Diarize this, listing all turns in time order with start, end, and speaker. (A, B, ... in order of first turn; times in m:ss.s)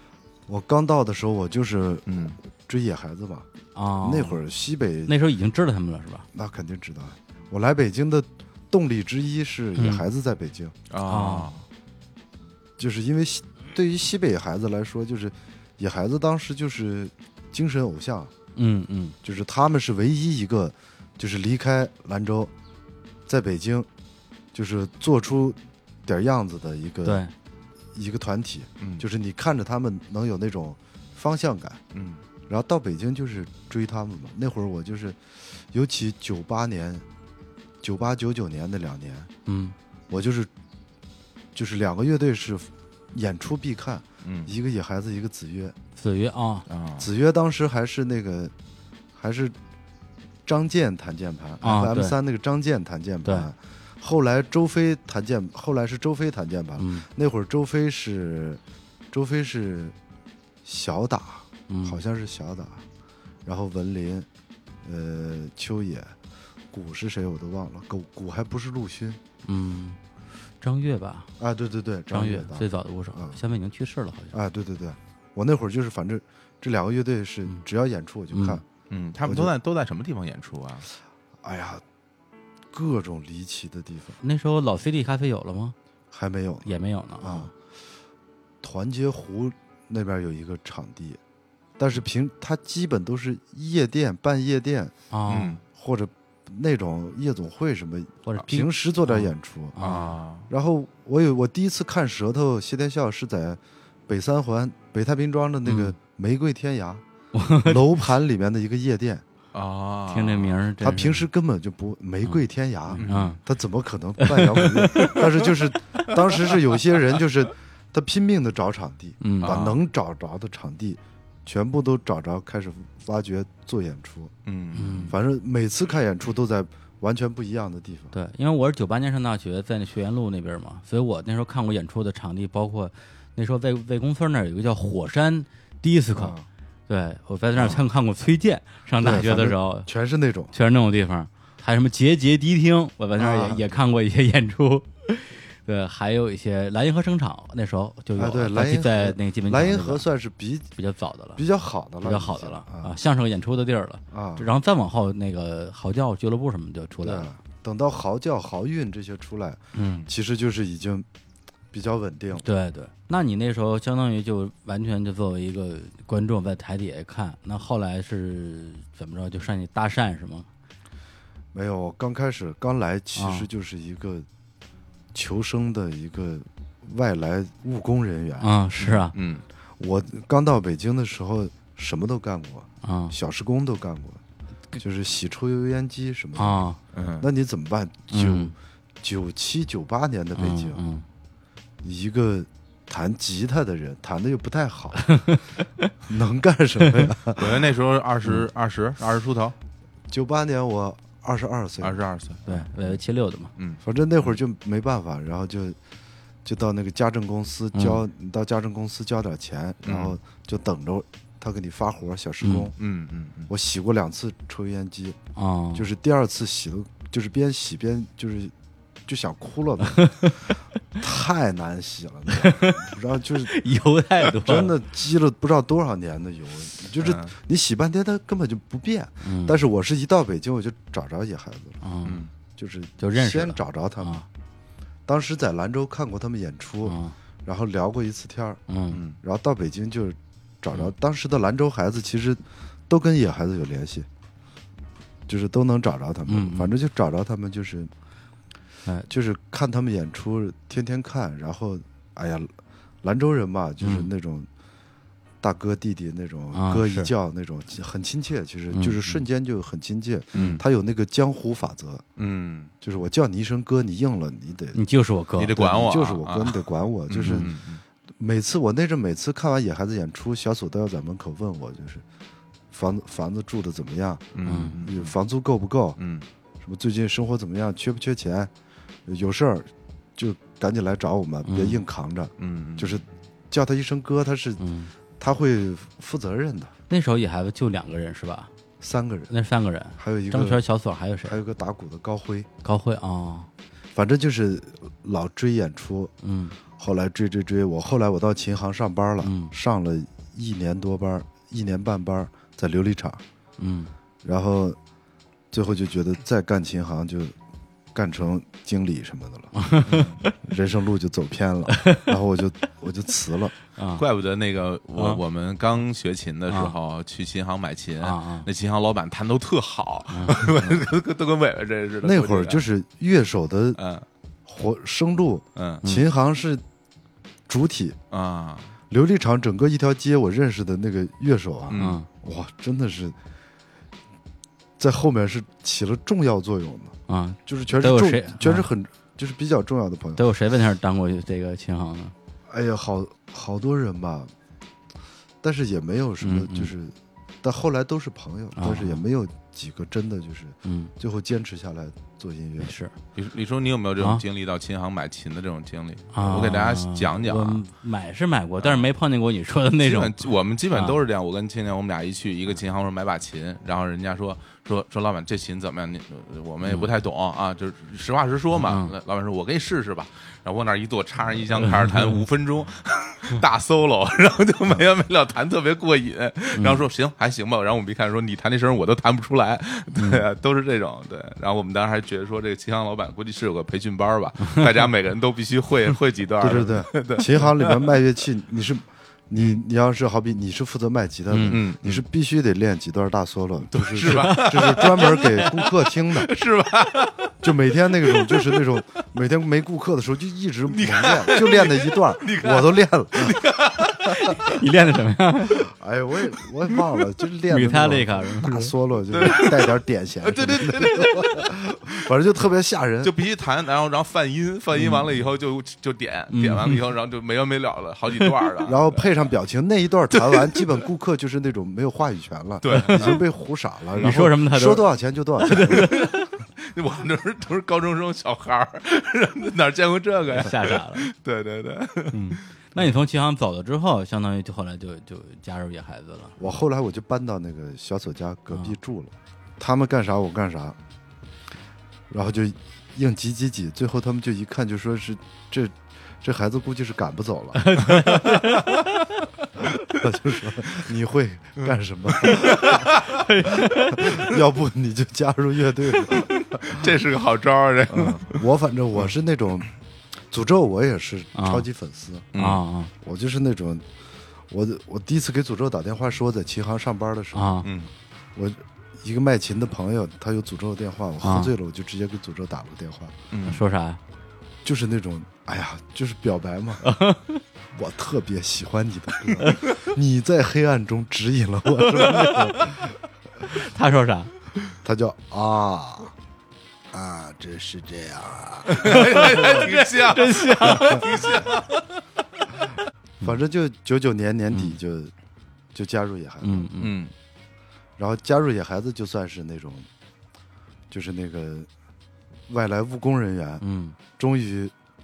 0:00.5-0:03.5 A
0:02.1-0:02.4 B
0:03.7-0:04.4 C
0:04.0-0:05.1 A
0:05.0-0:06.3 C
0:06.3-0:10.8 A
0:09.8-0:10.0 C
0:10.9-0:11.6 B
0:11.0-0:11.5 C
0:12.8-0:18.3 A
0:18.6-0:19.1 C
0:19.2-0:22.5 A
0:23.3-0:23.9 A
0:24.5-0:27.2 A
0:27.0-0:27.3 C
0:27.9-0:31.8 A
0:28.8-0:29.0 B
0:31.9-0:32.2 B
0:32.5-0:37.0 A
0:37.8-0:39.3 A
0:39.4-0:39.7 C
0:40.1-0:40.5 A
0:41.5-0:45.8 A
0:44.2-0:44.5 B
0:46.0-0:46.7 C
0:46.7-0:47.1 B
0:47.0-0:48.5 A
0:49.1-0:49.5 A
0:50.4-0:59.9 A
0:51.6-0:52.2 C
0:53.2-0:53.5 C
0:56.8-0:57.1 C
1:00.6-1:02.8 A
1:01.7-1:02.0 C
1:03.4-1:04.3 A
1:04.8-1:06.2 A
1:06.7-1:09.2 A
1:09.4-1:10.0 C
1:10.6-1:11.3 C
1:11.4-1:13.4 A
1:12.1-1:14.4 C
1:14.3-1:18.6 A
1:18.3-1:18.6 C
1:18.9-1:20.9 B
1:19.2-1:19.5 A
1:21.4-1:21.8 A
1:22.7-1:24.2 A
1:24.2-1:25.7 C
1:26.1-1:27.5 A
1:26.6-1:27.5 C
1:28.6-1:31.2 A
1:31.8-1:34.9 A
1:35.1-1:35.6 C
1:35.3-1:35.6 B
1:35.7-1:39.8 A
1:38.2-1:40.2 C
1:39.8-1:40.5 B
1:40.5-1:47.0 A
1:45.6-1:46.0 C
1:47.3-1:47.8 C
1:47.6-1:49.2 A
1:49.5-1:50.5 B
1:50.1-1:51.3 C
1:50.8-2:04.3 A
1:52.9-1:53.4 B
1:52.9-1:53.4 C
1:54.2-1:55.4 C
1:59.2-1:59.6 C
1:59.4-1:59.8 B
2:04.4-2:05.1 B
2:04.7-2:05.2 C
2:05.1-2:08.1 A
2:08.1-2:16.3 C
2:16.1-2:16.5 A
2:16.9-2:19.9 C
2:19.0-2:20.5 A
2:20.5-2:30.0 C
2:23.2-2:23.7 A
2:28.2-2:30.7 A
2:30.8-2:31.4 C
2:31.4-2:32.9 A
2:32.0-2:37.3 C
2:34.1-2:34.5 A
2:37.0-2:41.0 A
2:39.7-2:40.1 C
2:41.7-2:42.4 A
2:42.4-2:50.5 C
2:51.5-2:54.3 A
2:53.2-2:53.5 C
2:55.1-2:58.5 A
2:58.4-2:59.1 C
2:58.8-2:59.4 B
2:59.8-3:04.2 A
3:02.8-3:03.1 C
3:04.8-3:10.8 A
3:06.4-3:06.8 C
3:06.9-3:07.3 B
3:08.1-3:08.5 C
3:10.4-3:11.0 C
3:11.8-3:15.2 A
3:15.0-3:15.9 C
3:16.1-3:17.6 A
3:17.4-3:19.6 B
3:20.1-3:22.0 A
3:21.8-3:22.5 B
3:22.4-3:23.5 C
3:23.6-3:24.4 B
3:23.8-3:25.8 A
3:26.4-3:32.7 A
3:27.7-3:28.0 C
3:29.8-3:30.2 B
3:32.4-3:32.7 C
3:32.7-3:33.5 B
3:33.5-3:35.2 A
3:35.4-3:35.9 C
3:35.7-3:38.5 A
3:39.0-3:43.5 A
3:39.8-3:40.5 C
3:42.3-3:44.7 C
3:44.3-3:51.8 A
3:47.0-3:47.3 B
3:49.2-3:49.6 C
3:51.8-3:52.2 C
3:52.0-3:52.3 B
3:52.6-3:54.2 A
3:53.0-3:54.3 C
3:55.0-3:58.6 A
3:56.8-3:57.1 C
3:58.7-3:59.0 C
3:58.9-3:59.2 B
3:59.2-4:04.1 A
4:05.3-4:07.9 A
4:06.3-4:06.7 C
4:09.1-4:14.5 A
4:13.8-4:14.1 C
4:15.4-4:22.0 A
4:16.5-4:17.1 C
4:18.7-4:19.2 C
4:20.3-4:20.6 B
4:22.2-4:22.7 B
4:22.8-4:24.8 A
4:24.7-4:25.6 C
4:25.4-4:27.8 B
4:25.5-4:27.5 A
4:28.2-4:32.0 A
4:32.7-4:36.0 A
4:34.3-4:35.1 B
4:34.4-4:34.8 C
4:36.0-4:36.2 B
4:36.6-4:38.5 A
4:39.0-4:44.6 A
4:41.4-4:41.8 C
4:42.4-4:43.0 B
4:44.6-4:44.9 C
4:45.2-4:46.7 A
4:46.9-4:48.5 C
4:48.8-4:49.3 A
4:49.3-4:51.4 C
4:50.0-4:50.6 A
4:51.2-4:52.5 A
4:52.6-4:53.5 C
4:53.9-4:56.1 A
4:56.2-4:56.6 C
4:56.7-5:03.2 A
4:59.2-4:59.5 C
5:03.6-5:03.9 C
5:04.2-5:04.8 A
5:05.5-5:07.3 A
5:07.9-5:09.5 A
5:09.5-5:10.2 C
5:09.8-5:10.2 B
5:10.3-5:13.5 A
5:11.7-5:12.1 C
5:13.8-5:14.0 C
5:14.0-5:22.6 B
5:15.0-5:15.2 C
5:16.5-5:16.7 C
5:18.0-5:18.5 C
5:20.1-5:20.5 C
5:22.0-5:23.8 A
5:23.8-5:24.0 B
5:24.4-5:26.6 A
5:25.6-5:25.8 B
5:27.5-5:28.0 A
5:28.1-5:28.8 B
5:28.9-5:33.2 A
5:31.7-5:32.0 B
5:31.8-5:32.1 C
5:34.8-5:40.2 A
5:37.1-5:38.7 C
5:40.2-5:42.1 C
5:42.5-5:44.3 A
5:45.4-5:52.7 A
5:46.2-5:46.7 C
5:48.6-5:49.0 C
5:50.6-5:50.9 C
5:52.6-5:52.9 C
5:53.1-5:57.6 B
5:56.1-6:01.0 C
5:58.6-5:58.9 B
5:59.8-6:28.0 B
6:06.6-6:06.9 C
6:08.6-6:08.9 C
6:11.6-6:12.2 C
6:16.5-6:16.8 C
6:20.0-6:20.2 C
6:26.4-6:36.3 A
6:31.3-6:31.6 C
6:31.5-6:32.0 B
6:33.7-6:37.4 B
6:34.0-6:35.4 C
6:37.4-6:44.3 A
6:38.0-6:38.7 B
6:40.7-6:44.5 B
6:44.4-6:45.7 C
6:45.6-6:53.1 A
6:47.5-6:48.7 C
6:49.1-6:49.7 B
6:50.2-6:51.6 B
6:53.0-6:59.1 B
6:54.8-6:55.0 C
6:56.3-6:56.8 C
6:58.6-7:05.9 A
7:00.1-7:00.7 B
7:02.6-7:03.2 B
7:02.7-7:03.2 C
7:03.9-7:04.2 B
7:04.0-7:06.3 C
7:05.6-7:12.4 B
7:10.3-7:11.1 C
7:12.1-7:16.4 C
7:16.4-7:20.8 A
7:22.1-7:27.9 A
7:27.5-7:28.9 C
7:27.9-7:28.7 B
7:29.9-7:33.0 A
7:31.6-7:33.2 B
7:33.1-7:34.1 C
7:33.9-7:36.9 A
7:36.0-7:38.4 B
7:37.9-7:39.7 A
7:40.3-7:42.3 A
7:41.3-7:41.7 C
7:42.3-7:42.6 B
7:42.3-7:42.9 C
7:43.0-7:43.8 A
7:44.5-7:47.6 A
7:47.3-7:47.7 C
7:47.6-7:47.9 B
7:48.3-7:53.2 A
7:51.2-7:51.5 C
7:53.3-7:53.6 B
7:53.4-7:54.0 C
7:54.6-7:57.0 A
7:56.8-7:57.4 C
7:57.7-8:03.0 A
8:01.8-8:02.5 C
8:03.5-8:04.3 C
8:04.8-8:06.1 A
8:06.9-8:09.8 A
8:08.7-8:11.9 B
8:08.7-8:11.3 C
8:10.7-8:11.0 A
8:13.2-8:15.1 A
8:15.7-8:16.7 A
8:16.4-8:17.0 C
8:16.8-8:17.1 B
8:18.0-8:19.9 A
8:20.9-8:21.7 A
8:22.5-8:23.6 A
8:23.6-8:24.0 C
8:24.2-8:24.7 A